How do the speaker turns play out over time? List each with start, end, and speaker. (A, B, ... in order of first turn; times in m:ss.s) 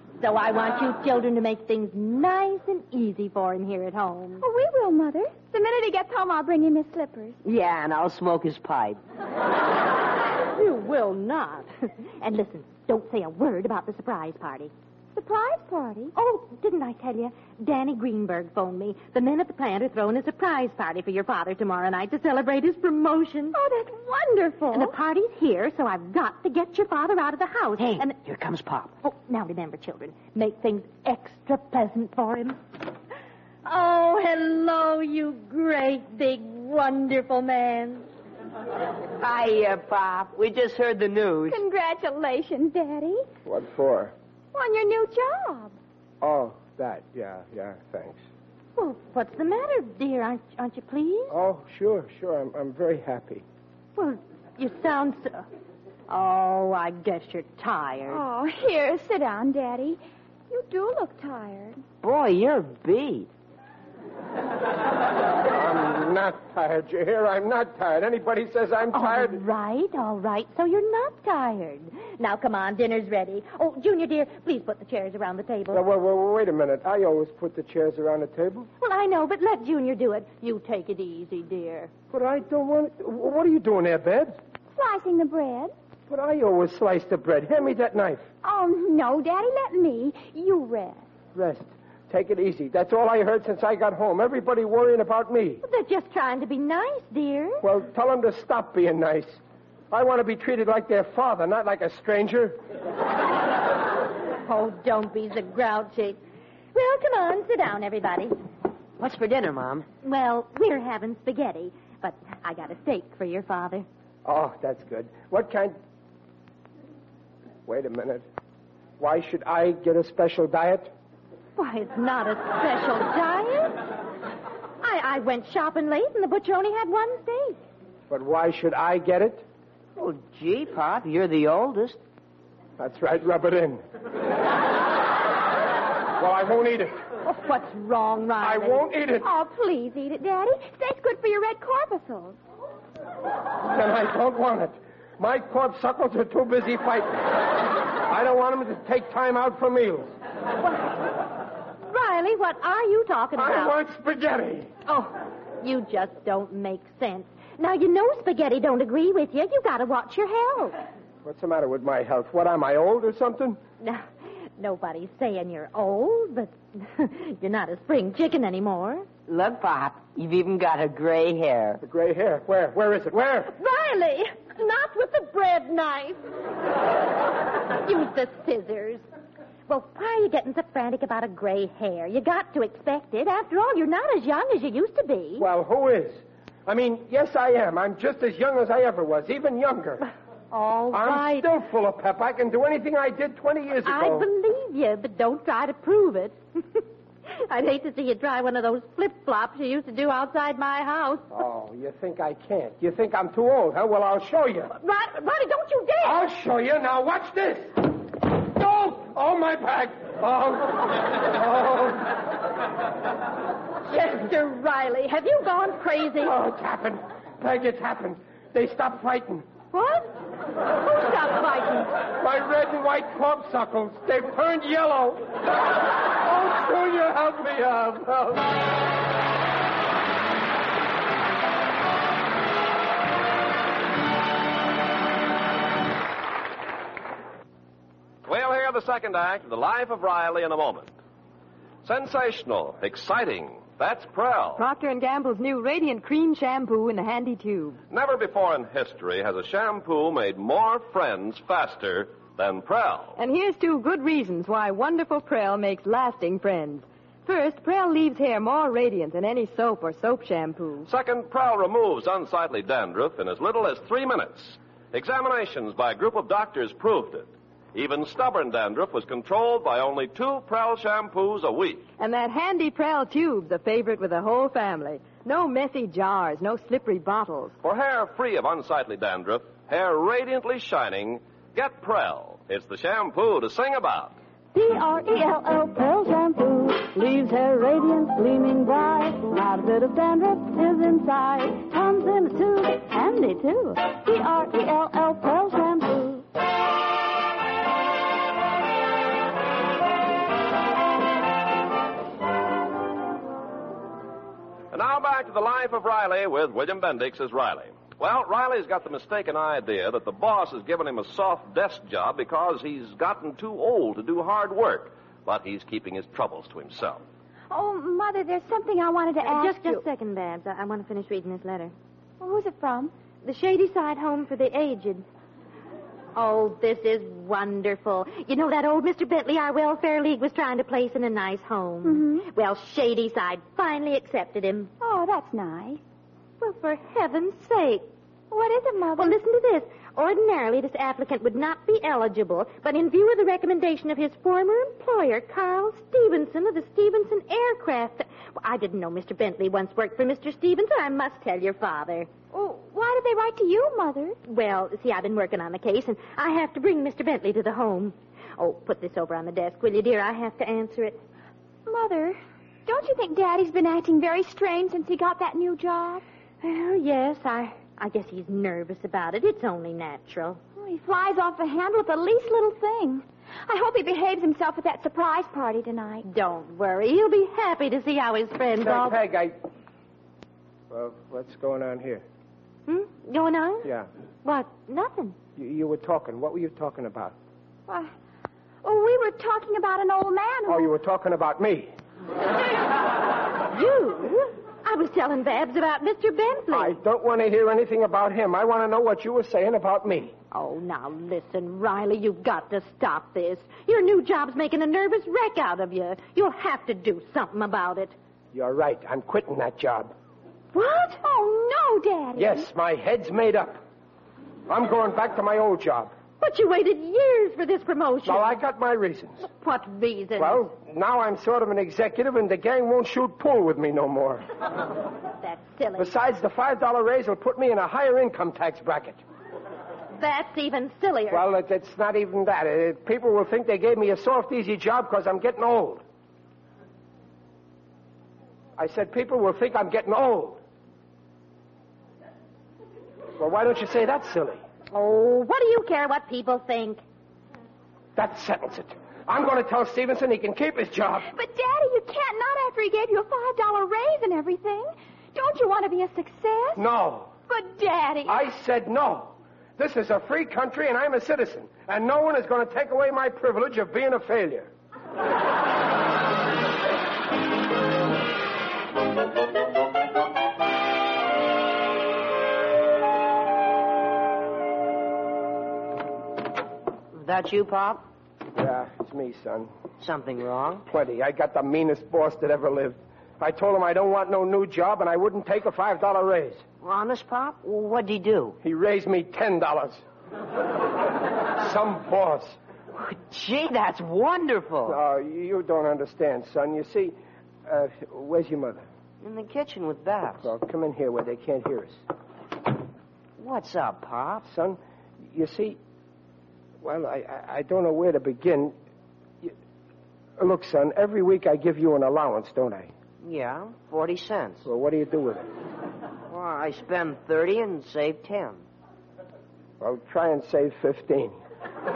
0:00.2-0:04.4 A
0:04.4-0:07.4 B
0:07.4-0:09.0 C
0:10.5-0:14.7 A
0:15.2-0:16.1 B
0:16.1-0:23.6 A
0:23.5-0:25.0 B
0:24.7-0:28.2 A
0:27.8-0:28.9 C
0:29.0-0:32.6 A
0:33.6-0:38.1 A
0:39.2-0:41.6 C
0:41.5-0:43.2 B
0:43.4-0:44.1 D
0:44.5-0:45.8 B
0:46.2-0:48.2 D
0:48.8-0:51.3 A
0:51.3-0:53.4 D
0:54.0-0:55.4 A
0:56.1-0:58.2 A
0:58.1-1:01.8 B
1:02.0-1:03.3 C
1:05.4-1:09.4 D
1:08.9-1:15.8 A
1:15.7-1:18.7 D
1:18.8-1:21.9 A
1:22.1-1:24.4 D
1:24.7-1:25.7 B
1:26.1-1:28.3 D
1:28.4-1:31.0 B
1:31.3-1:35.6 D
1:35.6-1:37.6 A
1:37.6-1:42.6 D
1:44.4-1:46.2 A
1:46.7-1:48.3 A
1:49.0-1:49.9 C
1:50.0-1:53.9 A
1:54.2-1:55.8 D
1:57.7-1:58.2 D
1:59.0-2:00.9 D
2:01.6-2:03.8 A
2:04.8-2:07.6 A
2:08.1-2:09.4 D
2:10.0-2:12.0 C
2:12.8-2:13.8 D
2:16.2-2:17.0 D
2:17.2-2:18.8 A
2:18.4-2:19.3 D
2:19.2-2:22.4 B
2:23.6-2:27.5 D
2:28.1-2:30.1 D
2:30.6-2:30.9 A
2:31.9-2:33.8 A
2:33.4-2:34.7 D
2:34.9-2:40.8 A
2:41.2-2:43.6 D
2:43.8-2:44.1 A
2:44.6-2:49.1 A
2:49.3-2:51.8 C
2:51.8-2:53.5 D
2:53.5-2:56.2 A
2:57.8-2:59.0 A
2:59.7-3:05.5 A
3:05.4-3:10.1 D
3:10.5-3:11.5 A
3:10.9-3:14.3 D
3:13.8-3:16.8 A
3:17.4-3:21.3 A
3:21.3-3:24.7 D
3:24.8-3:26.2 A
3:26.0-3:32.2 D
3:33.9-3:36.4 A
3:36.2-3:39.5 D
3:39.7-3:40.1 A
3:40.7-3:41.9 A
3:42.2-3:45.3 D
3:46.2-3:48.5 D
3:58.2-4:00.9 E
4:01.8-4:04.6 E
4:04.6-4:07.8 F
4:07.9-4:13.2 E
4:13.2-4:20.9 F
4:20.8-4:31.9 E
4:32.0-4:37.6 F
4:37.6-4:44.2 E
4:44.5-4:56.2 G
5:04.7-5:17.0 E
5:17.5-5:19.8 B
5:19.2-5:21.7 A
5:22.2-5:22.9 B
5:23.2-5:25.0 A
5:26.2-5:34.7 A
5:31.8-5:32.3 B
5:34.8-5:35.8 B
5:36.4-5:37.9 A
5:38.3-5:39.2 B
5:39.0-5:52.1 A
5:52.3-5:54.2 B
5:54.2-6:01.0 A
6:01.7-6:06.0 B
6:06.4-6:10.4 A
6:10.6-6:16.0 B
6:16.0-6:19.0 A
6:18.6-6:19.4 D
6:20.7-6:22.0 D
6:22.7-6:23.7 A
6:24.2-6:25.2 A
6:25.4-6:27.2 D
6:27.7-6:27.9 B
6:28.6-6:30.7 B
6:30.5-6:31.7 D
6:33.5-6:36.8 A
6:36.5-6:40.2 D
6:40.3-6:48.0 A
6:48.3-6:49.9 D
6:50.6-6:52.5 B
6:50.6-6:50.9 A
6:52.2-6:53.6 D
6:54.5-6:55.9 D
6:56.2-6:58.3 A
6:58.0-6:59.3 D
6:59.4-7:00.5 A
7:00.2-7:04.2 D
7:05.2-7:05.9 A
7:05.8-7:09.0 D
7:10.0-7:11.2 A
7:11.1-7:15.8 D
7:18.6-7:20.4 D
7:23.2-7:24.4 D
7:24.7-7:26.8 A
7:28.0-7:31.1 D
7:31.1-7:36.6 B
7:36.6-7:37.1 D
7:37.3-7:38.2 B
7:38.1-7:44.5 D
7:56.9-7:57.8 C
7:58.3-7:59.5 D
7:59.8-8:00.6 C
8:00.7-8:06.4 D
8:06.6-8:08.4 C
8:08.4-8:09.8 D
8:11.3-8:12.4 D
8:12.7-8:14.8 C
8:14.7-8:17.0 D
8:17.5-8:18.7 D
8:19.0-8:20.3 C
8:20.2-8:21.8 D
8:23.2-8:24.3 C
8:24.2-8:25.6 D
8:26.6-8:28.6 D
8:30.2-8:32.7 D
8:33.0-8:34.5 C
8:34.4-8:35.3 D
8:36.1-8:38.4 C
8:39.6-8:41.2 D